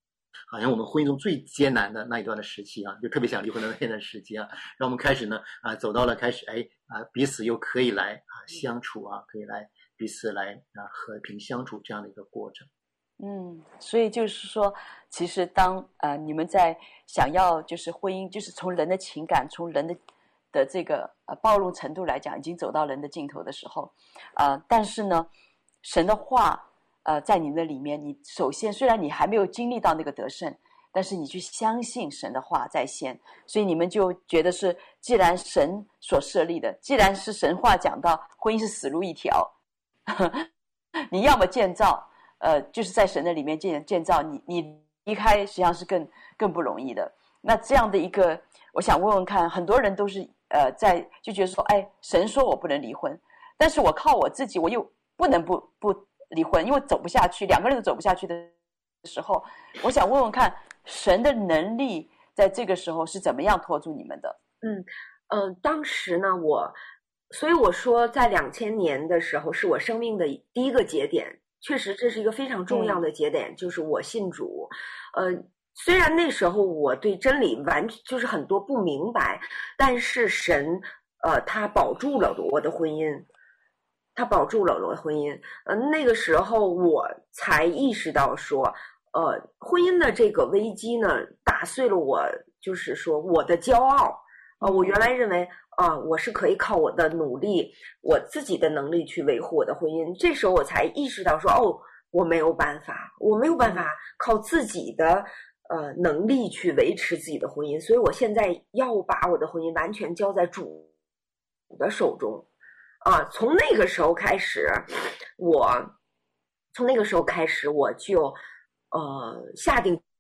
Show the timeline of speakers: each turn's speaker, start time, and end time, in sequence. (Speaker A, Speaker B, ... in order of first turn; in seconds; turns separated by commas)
Speaker A: 0.5-12.7, Speaker B: 13.2-20.0, Speaker B: 20.5-25.3, Speaker B: 25.8-39.5, Speaker B: 40.1-40.5, Speaker B: 41.1-64.4, Speaker C: 64.6-66.8, Speaker C: 67.3-83.3, Speaker B: 72.7-73.0, Speaker C: 84.2-110.9, Speaker B: 94.6-95.0, Speaker C: 111.7-112.5, Speaker C: 113.0-116.0, Speaker C: 116.7-118.4, Speaker C: 118.9-120.0